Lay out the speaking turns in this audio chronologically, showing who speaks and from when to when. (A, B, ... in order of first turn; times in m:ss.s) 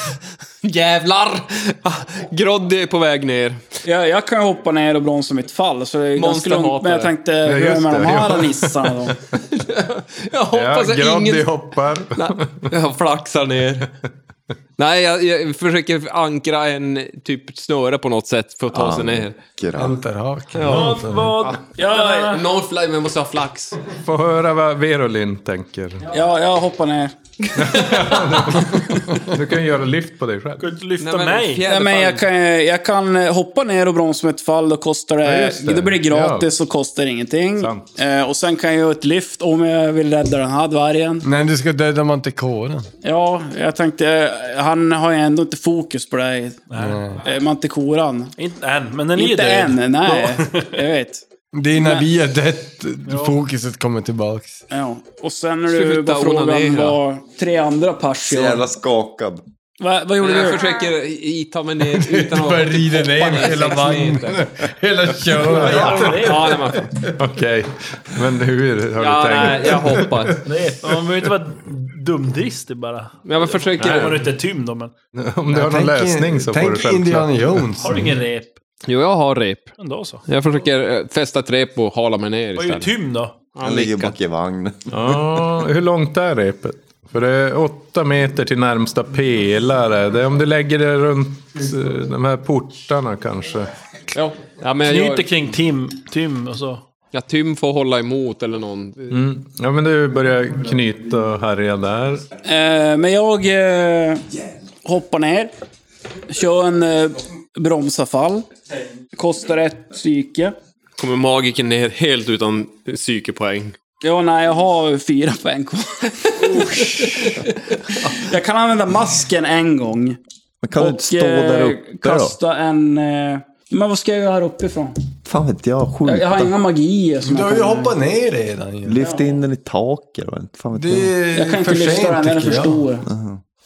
0:00.6-0:03.6 A
0:03.8-0:09.2 B
0:06.2-0:07.1 A
0:07.4-0:08.9 C
0:09.3-0:11.6 A
0:10.5-0:12.6 C
0:12.1-0:13.9 A
0:14.8-0:19.4 A
0:18.7-0:20.0 D
0:19.7-0:21.4 E
0:20.5-0:23.8 A
0:20.6-0:22.4 F
0:23.9-0:26.1 C
0:26.1-0:27.9 B
0:27.6-0:30.7 C
0:28.7-0:29.0 B
0:30.6-0:31.6 F
0:31.0-0:32.2 A
0:31.6-0:41.3 B
0:35.2-0:36.5 C
0:37.6-0:37.9 C
0:41.2-0:42.9 E
0:43.0-0:46.6 B
0:46.7-0:47.0 F
0:46.8-0:47.2 E
0:47.2-0:48.3 B
0:48.4-0:50.5 F
0:49.1-0:52.1 B
0:51.5-0:54.6 E
0:53.1-0:53.4 F
0:54.7-0:58.6 B
0:55.7-0:57.0 A
0:58.3-0:59.4 D
0:59.8-1:00.7 B
1:00.2-1:04.5 A
1:01.8-1:07.2 E
1:05.4-1:06.2 C
1:05.5-1:06.6 F
1:05.7-1:06.9 A
1:07.2-1:10.3 C
1:08.9-1:10.4 A
1:10.4-1:14.9 F
1:13.2-1:14.3 A
1:13.8-1:14.2 C
1:15.1-1:18.1 C
1:15.5-1:18.1 E
1:17.8-1:18.5 F
1:18.8-1:19.7 A
1:19.8-1:20.2 F
1:20.2-1:22.9 A
1:22.6-1:23.3 F
1:23.5-1:24.2 A
1:23.6-1:25.2 D
1:24.9-1:33.7 C
1:34.1-1:35.4 A
1:34.8-1:36.8 F
1:37.1-1:39.1 A
1:39.1-1:42.2 C
1:42.4-1:44.3 B
1:44.8-1:45.5 B
1:46.3-1:48.5 B
1:49.1-1:50.5 B
1:51.0-1:53.8 A
1:54.0-2:00.2 B
1:57.0-1:57.5 A
2:00.6-2:02.4 D
2:00.8-2:04.9 B
2:05.2-2:06.5 D
2:06.0-2:08.0 B
2:07.2-2:09.0 E
2:08.8-2:11.1 D
2:09.0-2:09.3 B
2:10.7-2:12.8 E
2:11.3-2:13.1 B
2:13.0-2:13.4 D